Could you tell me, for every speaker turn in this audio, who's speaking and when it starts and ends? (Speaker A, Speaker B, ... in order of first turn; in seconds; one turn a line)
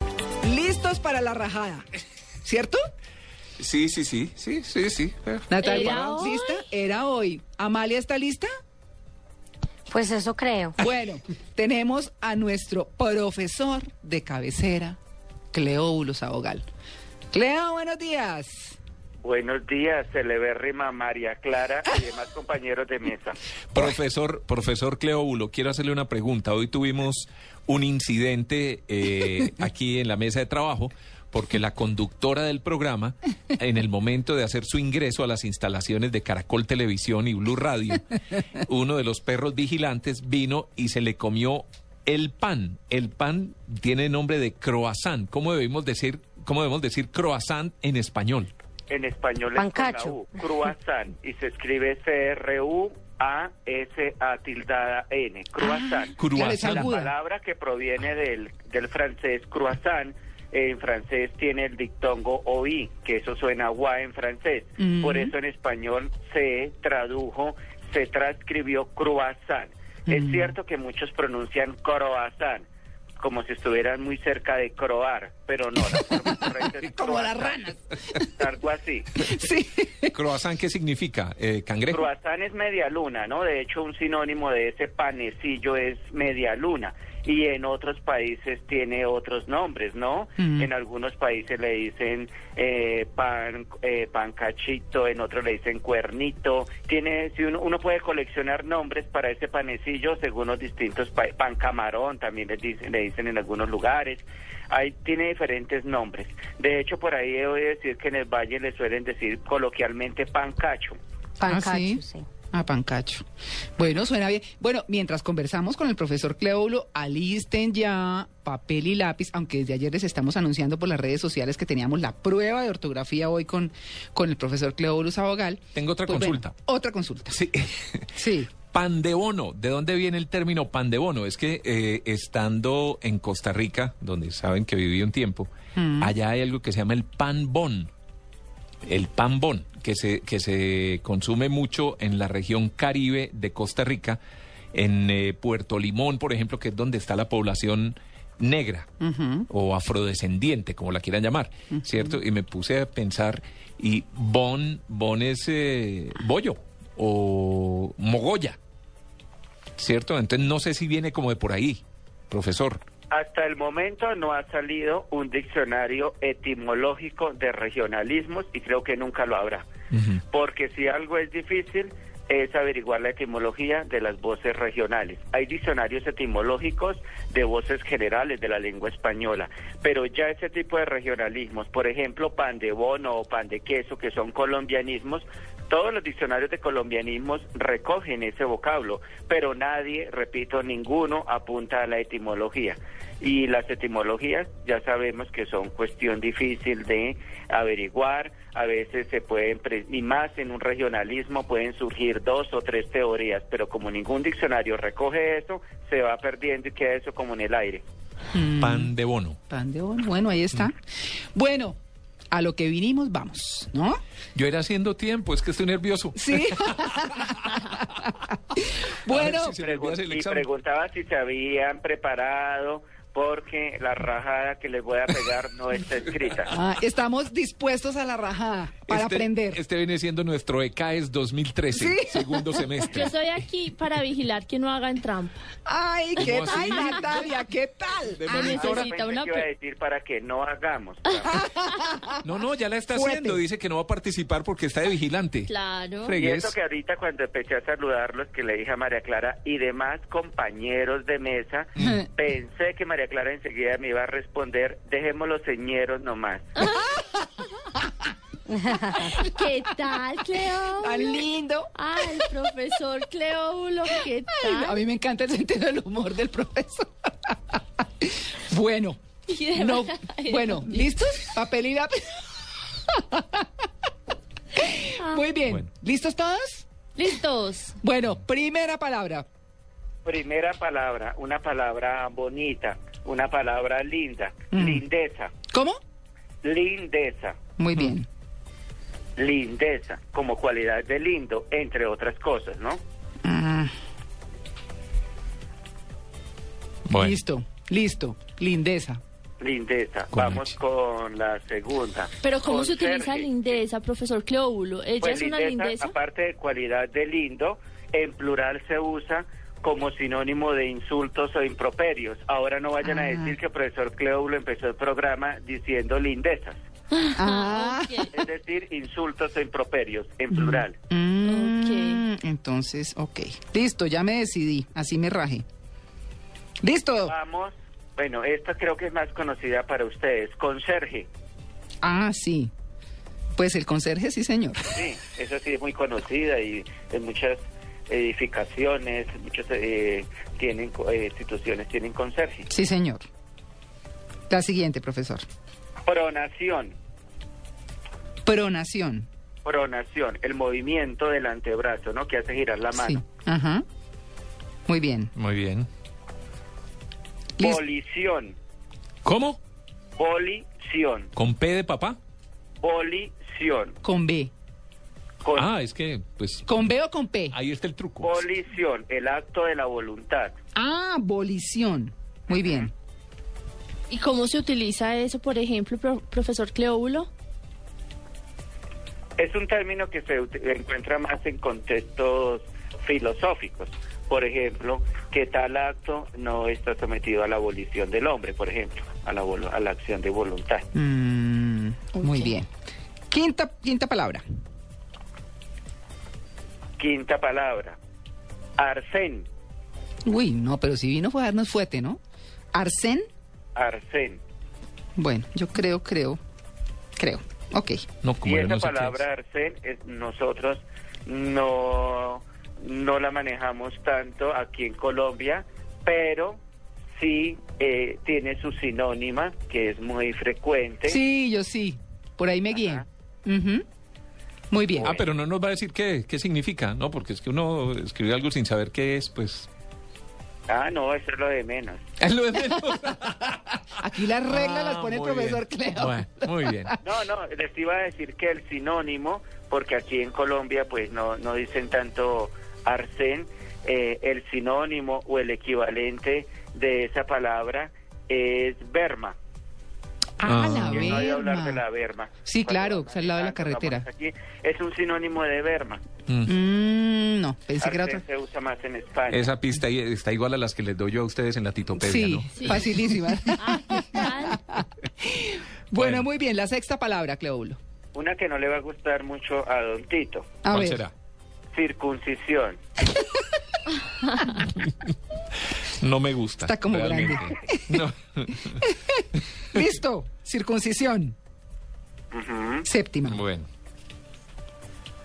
Speaker A: 0.4-1.9
Speaker A: 2.4-2.8
Speaker B: 3.6-6.0
Speaker A: 5.5-8.5
Speaker C: 5.6-6.6
Speaker D: 9.9-10.8
Speaker A: 10.8-15.0
Speaker A: 15.5-16.7
Speaker A: 17.3-18.8
Speaker E: 19.2-23.4
Speaker B: 23.7-48.5
Speaker E: 48.9-72.7
Speaker D: 49.6-50.2
Speaker A: 55.6-57.1
Speaker B: 56.2-57.0
Speaker A: 64.8-65.3
Speaker A: 70.1-70.5
Speaker E: 73.2-77.6
Speaker A: 76.2-78.2
Speaker E: 78.2-79.1
Speaker A: 79.2-80.2
Speaker B: 80.1-82.1
Speaker E: 81.9-111.0
Speaker A: 90.4-90.7
Speaker D: 111.4-112.3
Speaker A: 111.5-127.4
Speaker B: 125.7-126.5
Speaker B: 127.3-137.9
Speaker A: 128.2-128.5
Speaker A: 135.8-136.1
Speaker B: 138.8-144.2
Speaker B: 144.7-148.9
Speaker A: 149.0-149.5
Speaker B: 149.5-158.6
Speaker A: 151.7-152.2
Speaker B: 159.8-162.8
Speaker E: 163.1-169.7
Speaker B: 169.9-170.2
Speaker E: 170.3-207.8
Speaker A: 208.3-208.9
Speaker B: 208.6-209.4
Speaker A: 209.5-210.8
Speaker A: 211.3-211.8
Speaker A: 212.3-214.0
Speaker B: 214.3-218.1
Speaker A: 216.2-219.6
Speaker B: 219.1-220.4
Speaker E: 219.6-226.5
Speaker A: 226.5-229.6
Speaker B: 228.9-233.1
Speaker A: 231.7-232.8
Speaker C: 232.9-235.4
Speaker A: 235.7-238.9
Speaker B: 236.2-237.0
Speaker C: 236.2-237.0
Speaker B: 238.2-238.6
Speaker C: 238.2-239.4
Speaker E: 238.5-241.4
Speaker A: 241.3-242.2
Speaker B: 242.2-245.5
Speaker A: 242.9-243.4
Speaker C: 245.5-246.2
Speaker B: 246.0-246.5
Speaker E: 246.2-256.4
Speaker C: 256.6-256.9
Speaker D: 258.5-259.1
Speaker C: 259.0-264.8
Speaker A: 260.6-262.2
Speaker A: 263.9-269.0
Speaker C: 269.3-270.8
Speaker A: 269.5-273.5
Speaker A: 274.5-276.6
Speaker C: 277.0-277.8
Speaker A: 277.8-279.2
Speaker E: 280.0-285.3
Speaker A: 284.5-284.8
Speaker A: 285.5-285.8
Speaker E: 286.4-287.4
Speaker A: 287.6-288.1
Speaker E: 289.2-292.8
Speaker A: 293.2-293.7
Speaker B: 296.9-297.2
Speaker A: 296.9-299.0
Speaker E: 299.4-303.6
Speaker B: 300.1-300.5
Speaker C: 302.2-305.9
Speaker E: 305.0-316.6
Speaker A: 312.8-313.3
Speaker C: 316.9-318.1
Speaker A: 317.1-318.2
Speaker E: 318.1-320.8
Speaker A: 320.3-325.4
Speaker C: 321.2-322.0
Speaker A: 326.6-327.1
Speaker E: 327.1-331.1
Speaker A: 331.8-332.5
Speaker A: 333.4-334.8
Speaker E: 334.7-342.5
Speaker A: 342.5-343.1
Speaker A: 344.3-345.2
Speaker E: 345.9-346.8
Speaker A: 348.2-349.1
Speaker E: 349.4-353.0
Speaker A: 352.7-353.6
Speaker A: 354.7-355.1
Speaker B: 355.1-355.7
Speaker E: 357.4-358.4
Speaker B: 359.0-359.4
Speaker E: 360.0-361.1
Speaker B: 361.1-362.0
Speaker E: 362.6-363.8
Speaker A: 363.8-364.3
Speaker E: 365.2-365.5
Speaker B: 365.3-366.5
Speaker A: 366.5-367.4
Speaker B: 367.3-368.2
Speaker E: 368.0-370.4
Speaker A: 370.5-372.7
Speaker E: 372.3-372.7
Speaker C: 373.9-377.1
Speaker E: 379.2-390.7
Speaker A: 390.7-392.5
Speaker D: 392.0-392.3
Speaker A: 393.1-394.2
Speaker E: 396.8-397.8
Speaker E: 398.6-399.3
Speaker A: 400.0-402.0
Speaker A: 402.5-403.1
Speaker E: 403.5-404.2
Speaker A: 404.9-406.2
Speaker A: 407.0-407.9
Speaker B: 408.0-409.0
Speaker E: 408.2-416.4
Speaker E: 417.0-421.0
Speaker A: 420.9-423.6
Speaker E: 422.5-422.8
Speaker A: 424.5-424.9
Speaker E: 424.8-425.0
Speaker B: 424.8-429.5
Speaker E: 430.5-431.8
Speaker B: 432.0-433.6
Speaker A: 433.8-436.8
Speaker B: 434.3-436.8
Speaker E: 436.8-449.1
Speaker A: 450.2-451.6
Speaker B: 450.2-451.1
Speaker E: 450.6-455.8
Speaker A: 452.2-453.9
Speaker B: 456.1-456.3
Speaker A: 456.2-458.0
Speaker E: 457.6-459.3
Speaker B: 459.1-462.7
Speaker A: 461.8-467.6
Speaker C: 462.4-462.6
Speaker C: 463.4-464.4
Speaker B: 465.8-466.0
Speaker E: 467.9-470.3
Speaker A: 470.4-470.8
Speaker B: 470.5-470.9
Speaker E: 471.5-472.6
Speaker B: 474.6-474.9
Speaker B: 475.7-478.7
Speaker A: 476.4-477.8
Speaker A: 478.5-481.1
Speaker E: 482.1-482.7
Speaker A: 482.6-483.2
Speaker B: 483.1-483.5